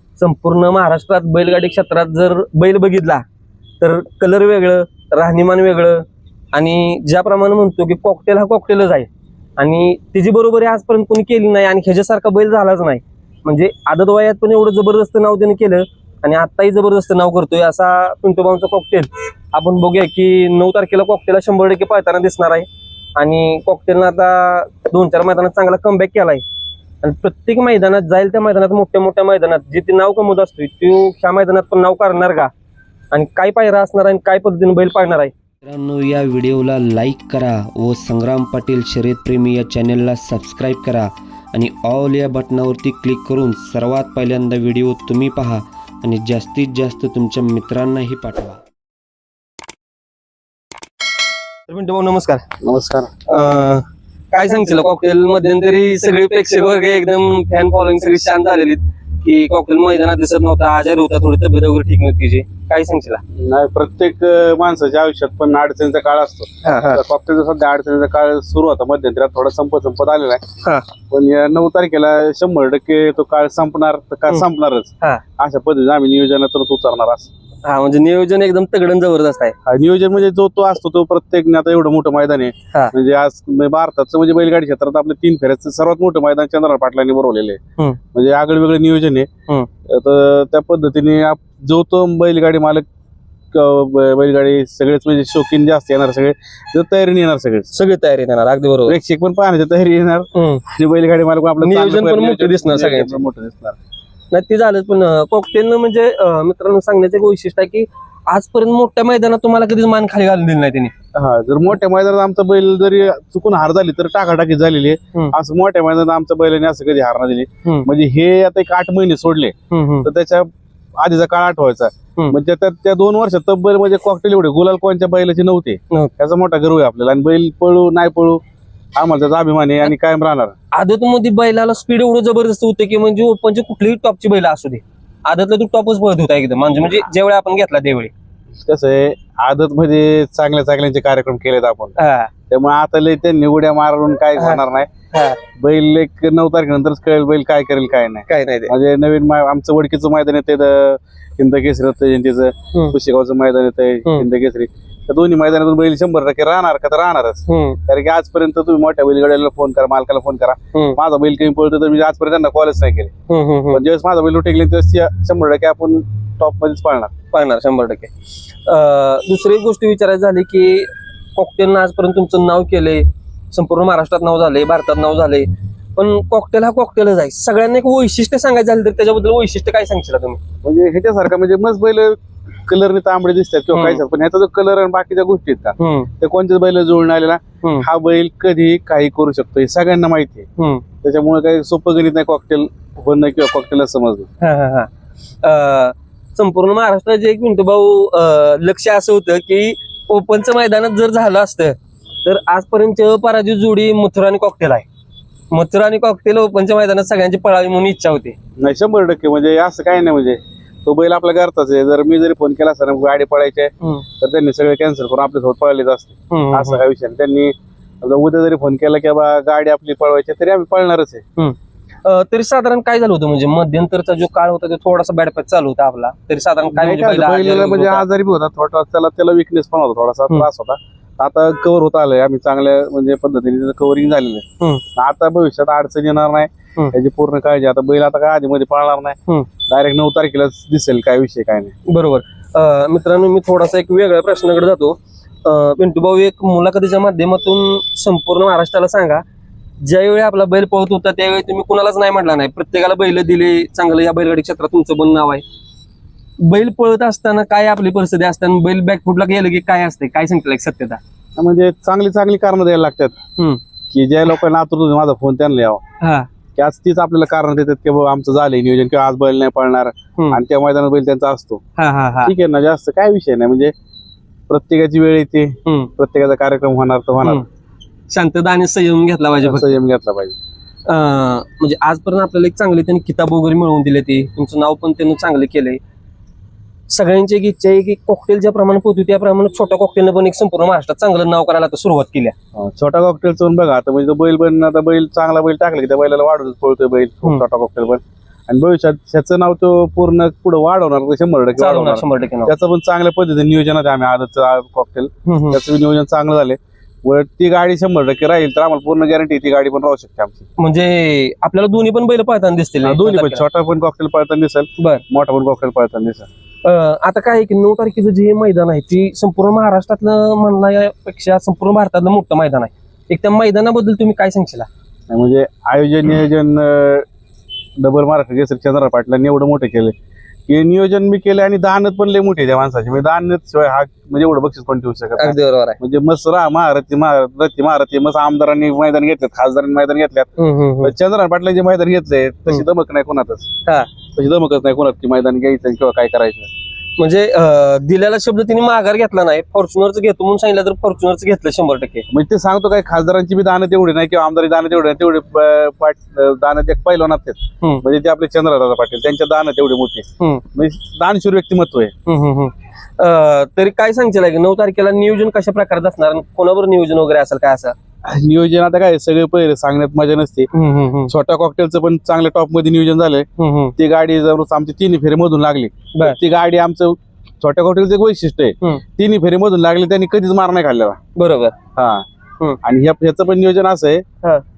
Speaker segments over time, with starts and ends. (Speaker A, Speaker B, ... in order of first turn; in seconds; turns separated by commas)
Speaker A: 0.2-3.2, Speaker A: 3.8-22.7, Speaker A: 23.2-26.4, Speaker A: 27.0-32.5, Speaker A: 33.1-35.3, Speaker B: 35.6-48.6, Speaker A: 51.7-52.4, Speaker C: 52.6-53.1, Speaker A: 53.3-63.2, Speaker C: 63.4-70.4, Speaker A: 66.6-67.0, Speaker A: 70.6-70.9, Speaker C: 71.1-77.3, Speaker A: 77.7-79.5, Speaker C: 79.7-87.6, Speaker C: 88.1-89.3, Speaker C: 89.9-92.8, Speaker C: 93.5-97.7, Speaker A: 97.7-99.0, Speaker C: 98.9-103.8, Speaker A: 100.3-100.6, Speaker A: 101.6-103.2, Speaker A: 104.3-110.9, Speaker C: 111.2-119.5, Speaker A: 119.7-120.1, Speaker C: 120.0-128.4, Speaker C: 129.0-130.6, Speaker A: 130.7-138.1, Speaker C: 138.7-141.9, Speaker A: 142.0-142.3, Speaker C: 142.5-144.9, Speaker A: 144.4-145.4, Speaker C: 145.6-163.1, Speaker A: 148.3-148.7, Speaker A: 157.5-157.8, Speaker A: 163.3-163.8, Speaker C: 163.7-167.1, Speaker A: 167.3-168.1, Speaker A: 168.7-180.4, Speaker C: 180.6-190.5, Speaker A: 183.7-184.0, Speaker A: 185.8-186.1, Speaker A: 190.6-190.8, Speaker C: 191.0-194.3, Speaker A: 194.4-194.9, Speaker A: 195.4-204.9, Speaker A: 205.5-208.4, Speaker C: 208.6-221.2, Speaker A: 216.3-216.8, Speaker A: 221.4-228.1, Speaker C: 226.7-234.4, Speaker C: 235.0-239.2, Speaker C: 239.7-241.7, Speaker A: 241.9-249.2, Speaker A: 249.8-255.4, Speaker A: 256.4-261.0, Speaker C: 261.4-263.1, Speaker C: 263.9-265.8, Speaker A: 266.0-266.3, Speaker C: 266.6-271.6, Speaker A: 271.8-272.3, Speaker C: 272.2-273.7, Speaker C: 274.5-277.4, Speaker A: 275.7-275.9, Speaker A: 278.1-279.8, Speaker C: 279.4-280.4, Speaker A: 280.9-285.8, Speaker A: 286.9-292.3, Speaker C: 292.6-310.4, Speaker A: 301.6-302.5, Speaker A: 305.3-305.6, Speaker A: 310.6-313.4, Speaker C: 312.8-316.3, Speaker A: 316.6-324.7, Speaker C: 325.1-327.1, Speaker C: 327.8-329.9, Speaker C: 330.5-340.3, Speaker A: 335.2-335.8, Speaker A: 340.4-340.9, Speaker C: 340.8-343.5, Speaker C: 344.1-346.5, Speaker A: 347.0-352.1, Speaker C: 352.1-361.9, Speaker A: 362.1-367.8, Speaker C: 368.1-370.5, Speaker A: 370.5-371.1, Speaker C: 371.1-373.3, Speaker A: 373.4-373.7, Speaker C: 373.8-381.0, Speaker A: 381.2-381.6, Speaker C: 381.8-382.0, Speaker C: 382.6-384.0